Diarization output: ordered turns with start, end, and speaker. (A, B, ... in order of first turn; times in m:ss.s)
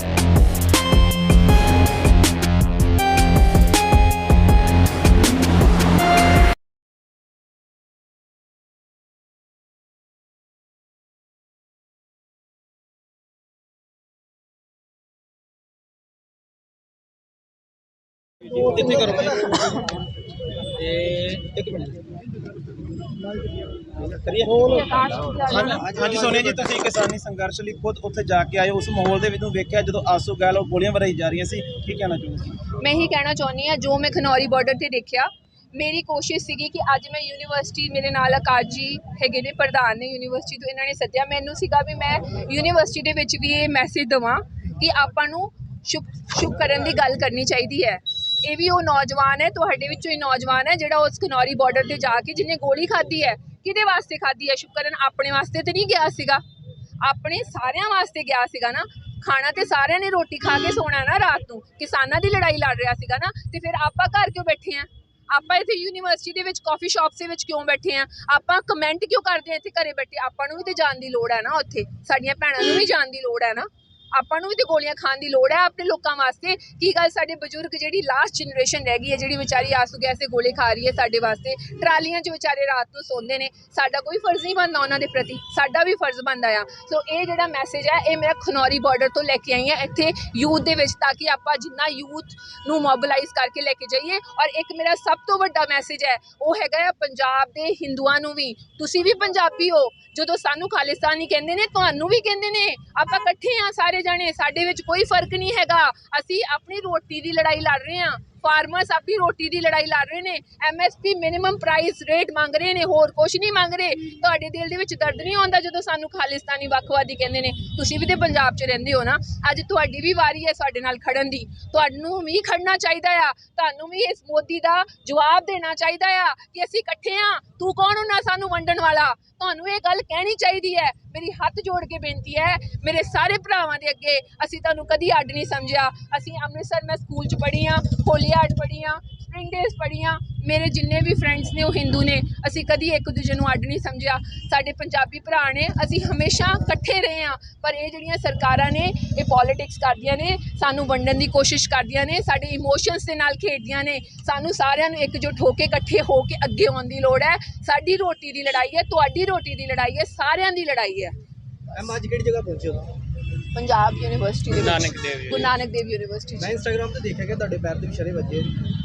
0:18.5-0:19.9 A
0:20.9-0:21.9 A
0:24.0-0:32.6 A
0:24.7-0:25.8 B
0:25.7-0:26.8 C
0:32.8-0:56.4 B
0:57.0-2:41.1 B
2:41.8-2:42.8 C
2:43.5-2:46.5 B
2:46.4-2:48.5 C